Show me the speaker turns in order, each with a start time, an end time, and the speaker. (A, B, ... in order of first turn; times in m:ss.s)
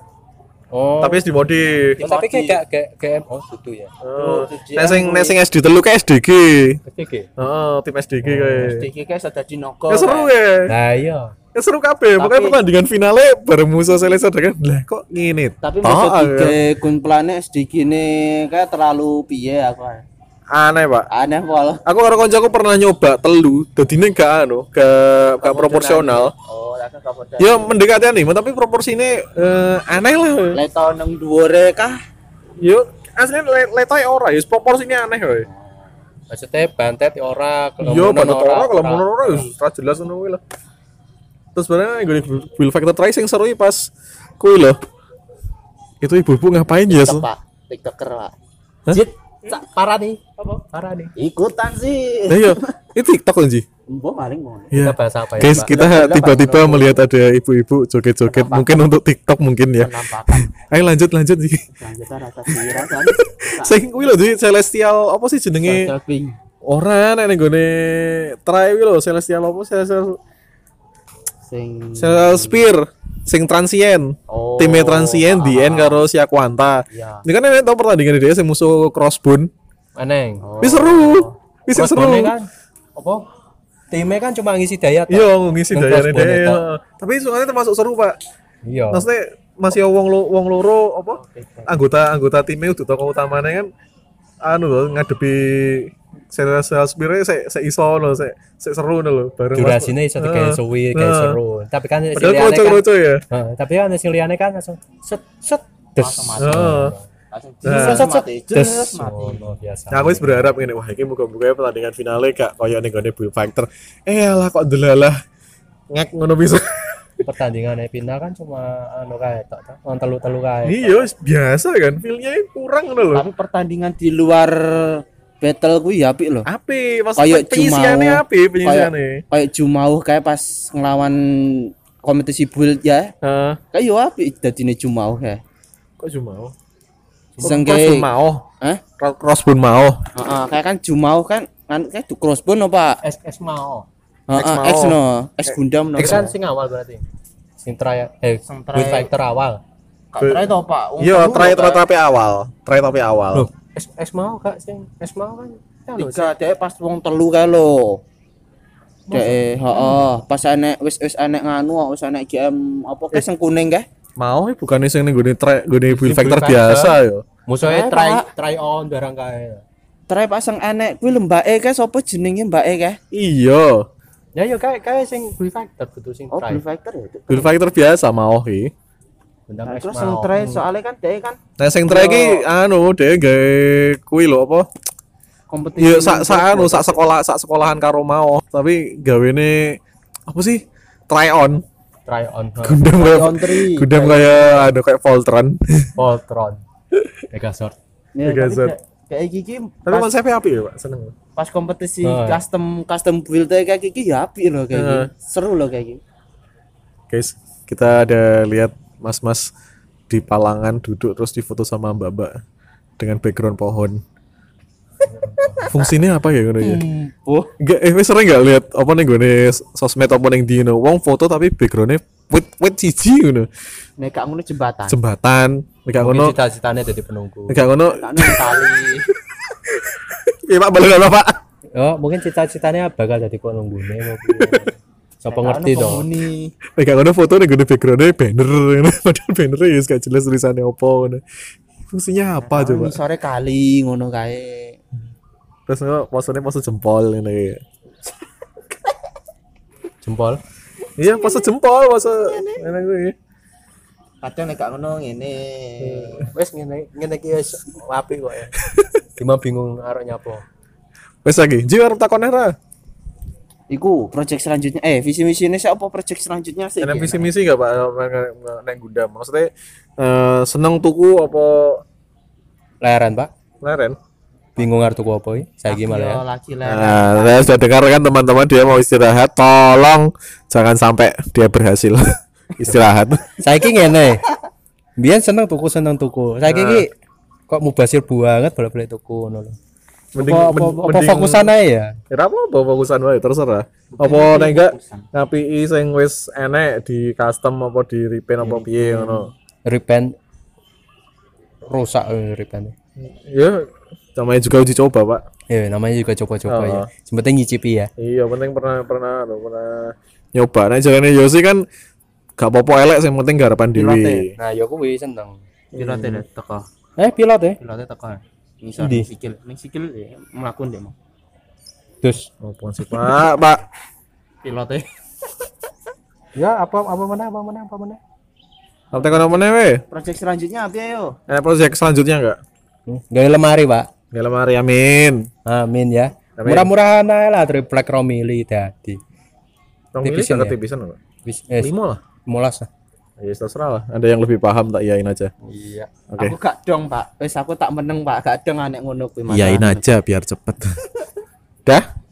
0:00.7-0:01.2 A
0:01.0-0:02.0 B
0:02.0-0:02.6 C
0:02.0-0:03.9 A
0:04.0-0:06.8 B
0:04.2-0:05.4 C
0:06.9-0:07.3 A
0:07.4-0:08.9 B
0:08.2-0:08.7 A
0:08.6-0:10.3 C
0:09.9-0:10.7 B
0:10.7-0:11.3 A
0:11.5-0:16.6 B
0:12.2-0:12.6 C
0:15.6-0:20.0 C
0:20.5-0:21.1 B
0:21.1-0:21.8 C
0:21.8-0:26.3 B
0:25.4-0:27.8 C
0:27.4-0:30.6 B
0:30.5-0:32.0 C
0:32.6-0:35.5 B
0:35.5-0:35.9 C
0:36.3-0:39.5 A
0:37.8-0:40.4 B
0:41.5-0:44.8 B
0:46.0-0:47.3 B
0:46.9-0:48.3 C
0:48.9-0:51.1 A
0:51.2-0:52.7 C
0:52.3-0:53.6 B
0:53.9-0:54.7 C
0:54.7-1:01.7 B
0:54.7-0:55.7 A
0:55.5-0:57.0 C
0:58.2-0:58.9 C
0:59.8-1:00.5 C
1:01.8-1:03.9 C
1:02.5-1:05.9 B
1:05.6-1:06.4 C
1:06.6-1:10.2 B
1:11.5-1:12.7 C
1:12.0-1:19.5 B
1:14.3-1:16.0 C
1:16.9-1:17.2 C
1:20.0-1:20.5 A
1:20.4-1:21.3 C
1:20.6-1:22.4 B
1:21.7-1:23.2 A
1:23.9-1:26.6 A
1:25.1-1:28.2 B
1:28.6-1:29.0 A
1:28.9-1:33.7 B
1:31.1-1:31.7 C
1:34.4-1:41.4 B
1:39.5-1:47.0 A
1:42.1-1:43.2 B
1:46.0-1:46.7 C
1:46.4-1:47.0 B
1:47.3-1:49.5 C
1:47.6-1:48.1 B
1:47.6-1:50.5 A
1:49.9-1:55.2 B
1:55.9-1:57.0 B
1:57.2-2:01.1 A
2:00.6-2:03.2 B
2:03.1-2:06.5 C
2:06.5-2:09.2 B
2:07.2-2:13.1 C
2:13.2-2:13.6 B
2:13.7-2:15.4 C
2:16.0-2:16.5 B
2:17.4-2:17.6 A
2:17.4-2:18.1 C
2:17.4-2:18.5 B
2:19.0-2:20.0 B
2:20.1-2:23.0 C
2:23.0-2:23.9 A
2:24.3-2:26.4 C
2:24.3-2:26.2 B
2:26.0-2:27.0 A
2:27.6-2:29.6 A
2:28.5-2:29.1 C
2:30.1-2:31.8 C
2:30.2-2:33.5 B
2:33.3-2:36.3 A
2:35.9-2:38.0 C
2:39.1-2:40.0 A
2:39.1-2:43.9 C
2:44.2-2:47.2 B
2:45.9-2:49.6 A
2:47.6-2:48.3 C
2:50.1-2:53.0 C
2:53.1-2:53.9 B
2:54.4-2:56.6 A
2:56.3-2:57.5 C
2:57.3-2:58.7 B
2:59.5-3:00.4 A
2:59.6-3:02.5 C
3:01.6-3:04.7 B
3:05.5-3:07.1 C
3:05.8-3:11.6 B
3:12.0-3:12.9 A
3:12.6-3:15.9 B
3:12.9-3:14.7 C
3:16.0-3:16.6 A
3:17.3-3:17.8 A
3:18.1-3:20.1 C
3:18.2-3:18.7 B
3:19.8-3:21.1 B
3:21.4-3:26.0 C
3:22.0-3:22.4 A
3:24.7-3:25.1 B
3:27.1-3:29.5 B
3:30.1-3:32.4 B
3:33.0-3:34.0 B
3:35.0-3:35.8 A
3:35.7-3:36.8 B
3:36.6-3:37.5 C
3:37.6-3:43.5 B
3:44.0-3:45.0 C
3:44.9-3:46.4 B
3:46.0-3:47.6 A
3:47.5-3:48.5 B
3:47.9-3:49.1 C
3:49.7-3:51.4 B
3:51.8-3:56.1 A
3:55.3-3:56.5 C
3:56.8-4:01.2 B
4:01.9-4:03.0 B
4:02.4-4:04.8 C
4:05.7-4:07.6 B
4:10.0-4:10.4 A
4:11.0-4:13.1 B
4:11.0-4:11.5 C
4:12.1-4:12.6 C
4:14.2-4:16.3 C
4:15.8-4:16.3 B
4:16.3-4:18.6 A
4:19.2-4:20.4 A
4:21.2-4:22.5 B
4:23.7-4:27.3 C
4:26.8-4:31.8 B
4:32.8-4:33.3 A
4:33.6-4:34.0 B
4:34.6-4:36.2 A
4:35.7-4:37.6 C
4:36.6-4:42.0 B
4:42.6-4:43.4 B
4:43.4-4:44.2 A
4:45.0-4:46.9 A
4:46.5-4:46.9 B
4:47.5-4:49.5 A
4:50.1-4:51.5 B
4:50.2-4:52.0 A
4:52.1-4:59.3 B
4:54.0-4:55.0 C
4:58.4-5:00.1 A
5:01.7-5:02.7 A
5:03.0-5:05.2 B
5:05.5-5:07.9 A
5:06.5-5:06.9 B
5:08.0-5:11.6 B
5:12.4-5:14.4 B
5:13.7-5:14.3 C
5:14.4-5:15.4 A
5:15.7-5:16.6 C
5:15.8-5:16.1 B
5:17.0-5:17.6 A
5:17.6-5:20.9 C
5:18.8-5:19.1 A
5:22.0-5:22.3 A
5:22.4-5:23.6 B
5:24.4-5:24.9 C
5:26.4-5:28.0 A
5:28.9-5:29.8 B
5:29.9-5:31.2 C
5:31.3-5:32.4 B
5:32.9-5:33.9 A
5:34.1-5:35.3 B
5:35.4-5:39.0 A
5:36.4-5:36.7 B
5:39.9-5:41.0 B
5:40.0-5:40.6 A
5:41.2-5:41.7 A
5:41.6-5:42.0 B
5:42.2-5:42.7 A
5:43.2-5:45.3 B
5:45.4-5:45.9 A
5:46.1-5:46.4 B
5:46.2-5:49.9 C
5:49.3-5:50.8 B